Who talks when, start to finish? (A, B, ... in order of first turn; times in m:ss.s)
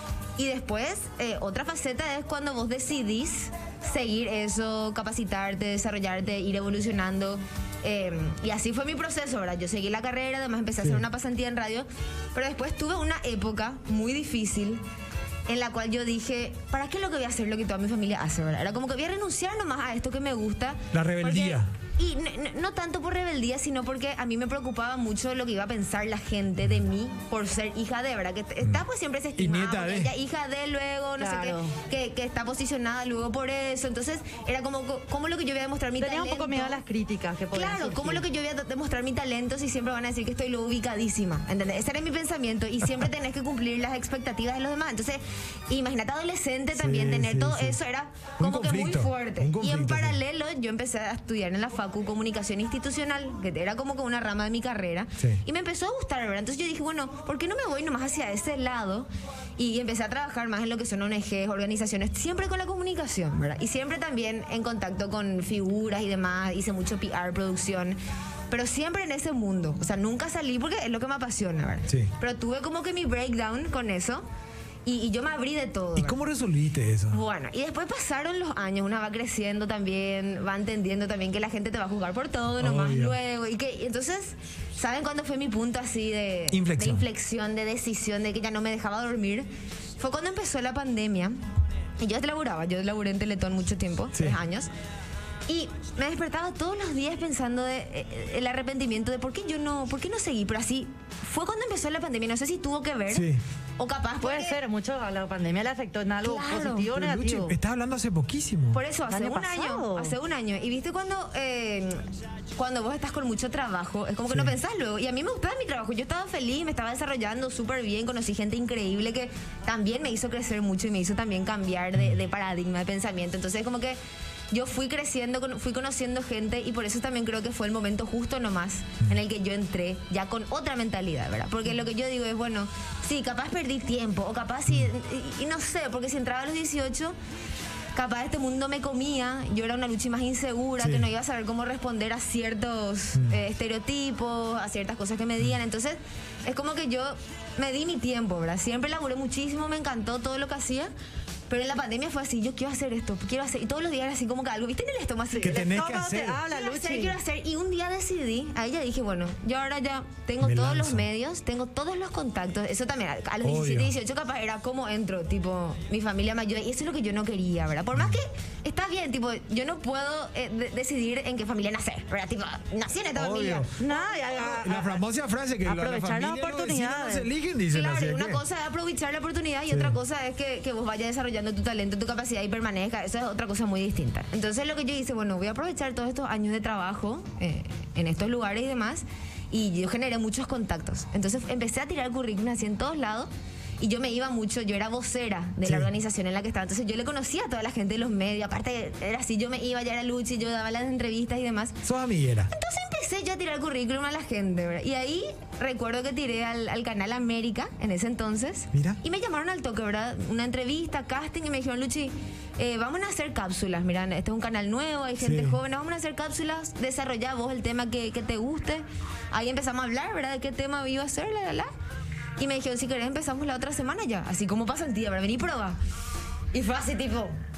0:00.4-0:14.8 A
0:15.5-0:36.8 A
0:20.9-0:21.7 B
0:29.4-0:30.1 B
0:31.2-0:31.8 C
0:36.0-0:38.2 C
0:37.5-1:08.0 A
0:46.8-0:47.8 B
0:48.4-0:50.2 B
1:08.5-1:14.3 A
1:14.8-1:16.2 A
1:16.0-1:17.2 B
1:17.1-1:29.5 A
1:22.6-1:23.2 B
1:26.5-1:27.0 B
1:30.0-1:31.4 A
1:32.0-1:34.7 A
1:35.5-1:44.6 A
1:43.1-1:43.4 B
1:44.2-1:47.6 C
1:46.2-1:46.9 A
1:47.0-1:48.8 B
1:48.7-2:04.0 A
1:49.1-1:50.2 C
1:54.3-1:54.6 B
2:04.5-2:17.2 A
2:18.0-2:30.9 A
2:20.8-2:21.1 B
2:31.5-2:35.6 A
2:35.3-2:37.2 C
2:35.4-2:36.4 B
2:36.5-2:54.2 A
2:40.4-2:41.0 B
2:43.4-2:43.9 B
2:53.2-2:53.7 B
2:53.8-2:55.0 C
2:54.3-2:58.4 B
2:55.6-2:57.3 C
2:57.7-3:21.8 A
2:59.7-3:00.0 B
3:15.6-3:15.9 B
3:21.8-3:22.5 B
3:22.5-3:41.7 A
3:28.7-3:29.0 B
3:35.2-3:35.6 B
3:42.4-3:45.8 A
3:46.5-3:47.3 A